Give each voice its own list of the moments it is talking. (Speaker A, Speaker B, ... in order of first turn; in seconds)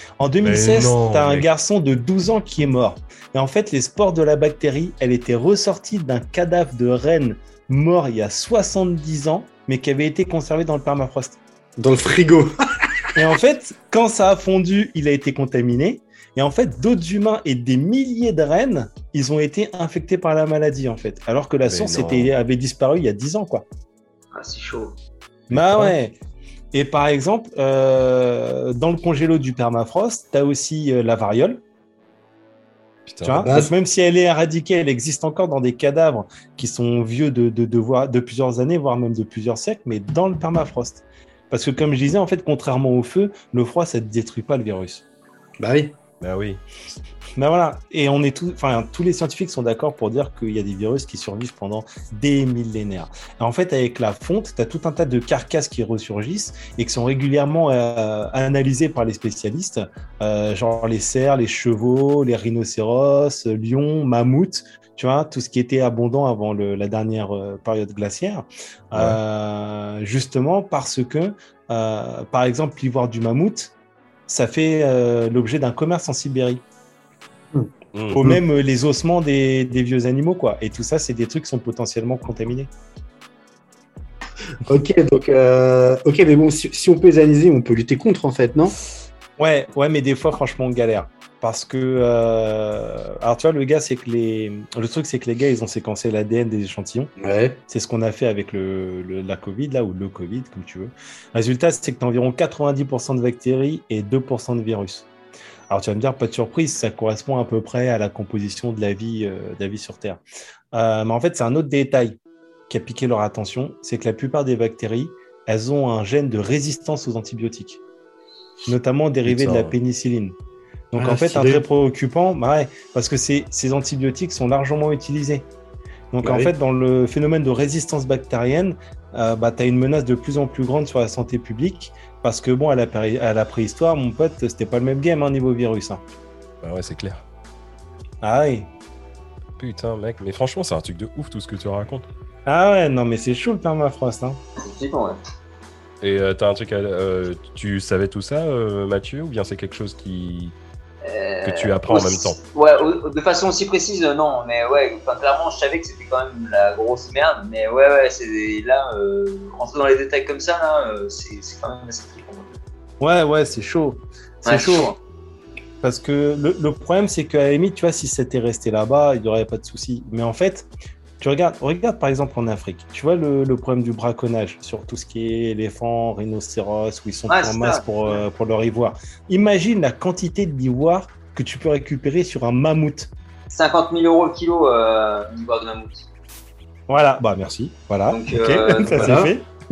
Speaker A: 0.2-11.4, 13.1-23.6, 25.5-26.1, 26.7-31.6, 33.2-45.0, 47.4-73.7, 74.3-76.6, 78.1-82.7, 89.4-97.1, 97.7-105.1, 105.7-110.2, 110.7-112.2, 112.7-117.8, 118.7-120.3, 120.9-125.5, 126.1-136.0, 138.2-138.7, 142.4-144.4, 163.0-164.9, 165.8-170.7, 171.2-183.1, 186.9-189.4
Speaker B: 0.4-1.4, 21.6-22.3, 25.5-25.9, 33.1-33.5, 46.2-46.6, 68.9-69.2, 77.9-78.3, 119.3-119.7, 136.6-137.2, 139.6-142.1, 146.0-150.5, 151.4-152.4
Speaker C: 11.8-12.9, 33.4-33.7, 45.6-46.0, 77.5-78.4, 84.6-88.7, 97.2-97.6, 121.0-121.6, 126.2-126.5, 188.9-189.3
Speaker D: 24.3-24.9, 144.6-145.2, 151.0-162.5, 164.4-165.0, 177.3-178.2, 183.5-186.1, 188.1-189.2